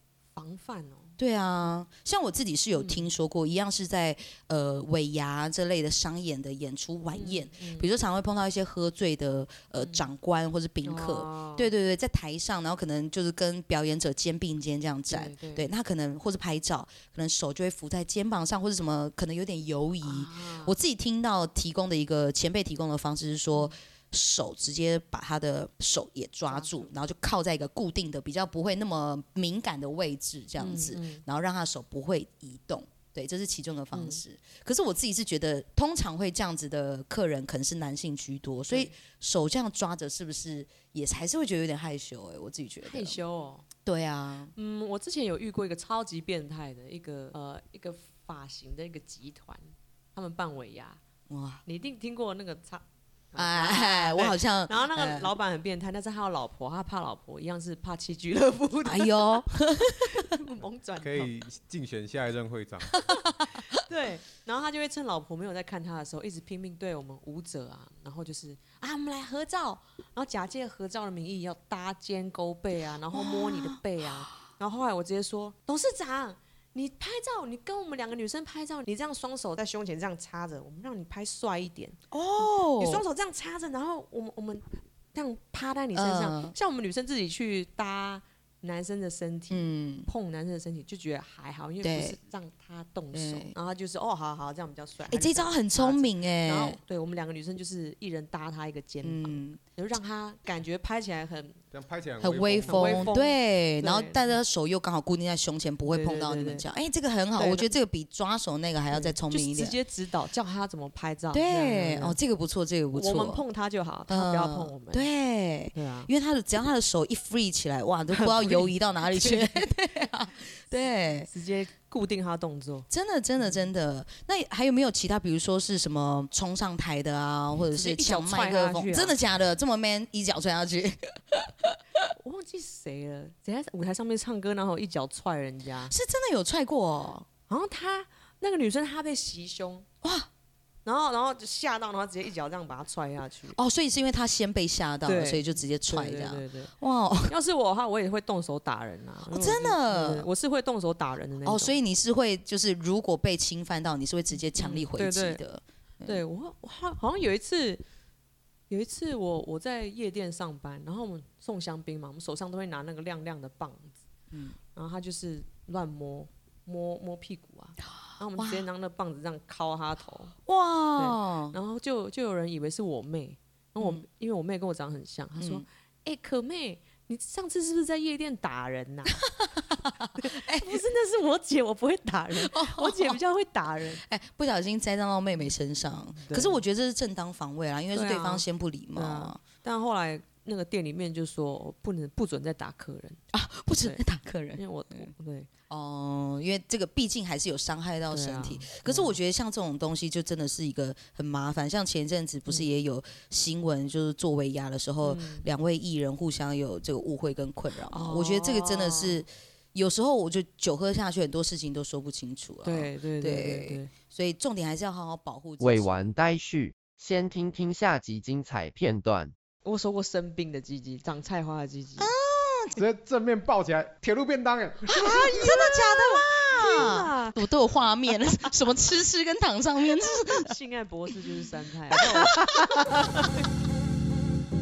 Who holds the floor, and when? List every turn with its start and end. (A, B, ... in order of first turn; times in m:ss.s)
0:00.4-0:01.2 A
0:01.2-0:43.2 B
0:02.7-0:03.1 A
0:07.1-0:07.9 A
0:09.8-0:10.1 A
0:10.8-0:11.7 A
0:15.1-0:15.7 A
0:20.0-0:20.8 A
0:26.5-0:26.9 A
0:30.6-0:31.2 A
0:33.9-0:34.2 A
0:42.8-0:43.7 A
0:43.8-0:44.5 B
0:44.6-0:51.0 A
0:51.3-0:51.6 B
0:51.6-0:59.3 A
0:53.4-0:55.3 B
0:58.8-1:00.4 B
1:00.1-1:01.3 A
1:01.0-1:03.1 C
1:03.7-1:41.6 A
1:13.1-1:13.8 B
1:22.1-1:23.0 B
1:25.9-1:26.6 B
1:29.5-1:30.1 B
1:31.8-1:32.2 B
1:33.1-1:33.5 B
1:35.1-1:36.8 B
1:39.0-1:39.6 B
1:41.7-1:43.1 C
1:42.2-1:49.8 B
1:42.7-1:44.3 A
1:45.9-1:46.6 A
1:47.4-1:47.7 A
1:48.9-1:52.2 A
1:51.3-1:53.4 B
1:52.9-1:55.1 A
1:54.1-2:01.3 B
1:55.7-1:56.1 A
1:58.1-1:59.6 A
2:01.3-2:02.9 A
2:02.9-2:12.1 B
2:07.7-2:09.2 A
2:12.2-2:15.9 A
2:15.9-2:17.3 B
2:17.5-2:19.9 A
2:20.0-2:20.3 B
2:20.8-2:23.6 A
2:23.6-2:27.4 B
2:25.0-2:26.7 A
2:27.3-2:31.8 A
2:29.3-2:30.3 B
2:31.4-2:36.2 B
2:34.5-2:35.4 A
2:36.0-2:37.8 A
2:38.7-2:44.0 A
2:44.3-2:44.6 B
2:44.7-2:50.4 A
2:48.4-2:48.7 B
2:50.5-2:51.6 B
2:51.0-2:59.2 A
2:55.4-2:55.6 B
2:59.3-3:00.8 B
3:00.2-3:04.0 A
3:02.4-3:03.2 B
3:04.0-3:09.4 B
3:06.2-3:06.6 A
3:07.9-3:13.2 A
3:13.3-3:15.1 B
3:14.6-3:15.5 A
3:15.7-3:35.9 B
3:18.1-3:19.2 A
3:25.0-3:25.5 A
3:27.9-3:29.2 A
3:32.6-3:33.9 A
3:35.6-3:39.3 D
3:39.6-3:42.1 A
3:42.0-3:42.8 B
3:42.8-3:45.6 C
3:44.9-3:50.5 B
3:45.0-3:47.5 A
3:50.0-3:53.3 A
3:51.9-3:53.1 B